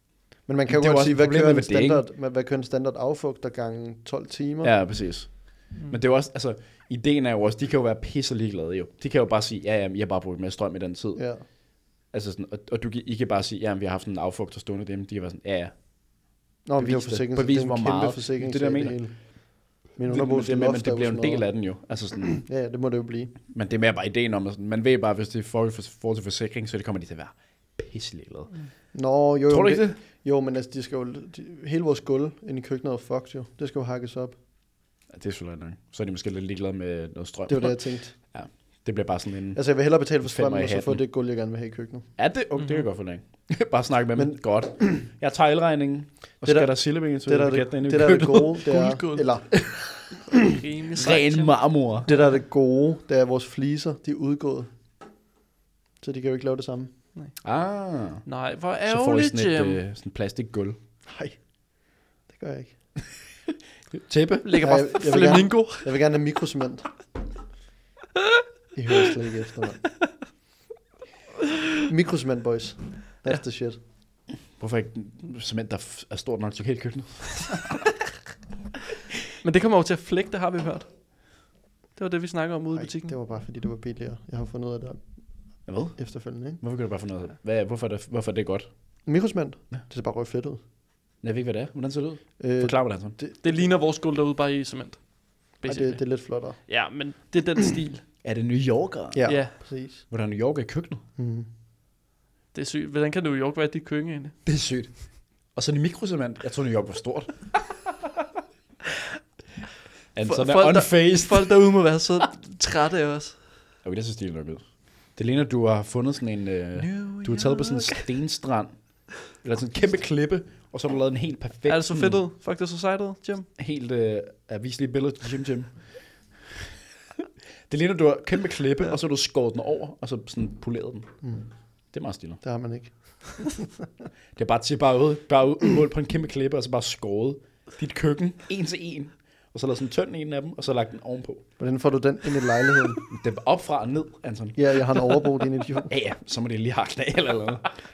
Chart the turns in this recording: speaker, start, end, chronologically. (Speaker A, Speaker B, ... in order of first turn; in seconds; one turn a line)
Speaker A: 0.5-4.7
Speaker B: 0.7-2.0
Speaker B: 4.6-16.2
Speaker A: 11.2-11.4
Speaker A: 16.6-21.5
Speaker B: 16.8-19.0
Speaker B: 20.1-22.5
Speaker A: 22.4-23.3
Speaker B: 23.5-28.5
Speaker A: 28.9-34.4
Speaker B: 29.5-30.0
Speaker B: 35.1-41.0
Speaker A: 37.5-38.1
Speaker A: 39.5-42.1
Speaker B: 42.2-48.6
Speaker A: 44.2-44.4
Speaker A: 46.4-50.1
Speaker C: 48.7-49.3
Speaker C: 50.3-51.6
Speaker B: 51.0-52.1
Speaker A: 52.1-54.7
Speaker A: 56.0-56.9
Speaker B: 57.4-58.3
Speaker C: 58.2-59.8
Speaker B: 58.9-60.8
Speaker A: 61.1-61.4
Speaker A: 62.3-62.8
Speaker B: 63.9-64.7
Speaker C: 64.5-65.9
Speaker A: 64.6-66.9
Speaker A: 68.8-69.8
Speaker A: 71.9-73.8
Speaker B: 74.6-77.8
Speaker C: 79.4-80.9
Speaker C: 82.0-83.1
Speaker A: 82.8-85.2
Speaker B: 85.7-88.7
Speaker A: 86.0-86.6
Speaker A: 89.0-90.6
Speaker B: 91.2-93.2
Speaker A: 92.4-93.6
Speaker C: 93.4-98.0
Speaker A: 95.7-96.7
Speaker B: 98.2-101.0
Speaker A: 99.1-100.0
Speaker C: 99.3-99.5
Speaker A: 101.2-101.5
Speaker C: 102.5-104.3
Speaker B: 104.5-107.5
Speaker B: 110.2-111.7
Speaker C: 110.3-113.4
Speaker B: 113.8-122.2
Speaker C: 116.8-118.0
Speaker C: 121.7-123.5
Speaker B: 123.6-126.0
Speaker B: 127.7-131.1
Speaker B: 131.9-132.4
Speaker A: 132.4-133.7
Speaker B: 134.4-141.5
Speaker A: 141.6-143.0
Speaker B: 143.1-145.1
Speaker A: 144.6-145.9
Speaker B: 145.9-147.7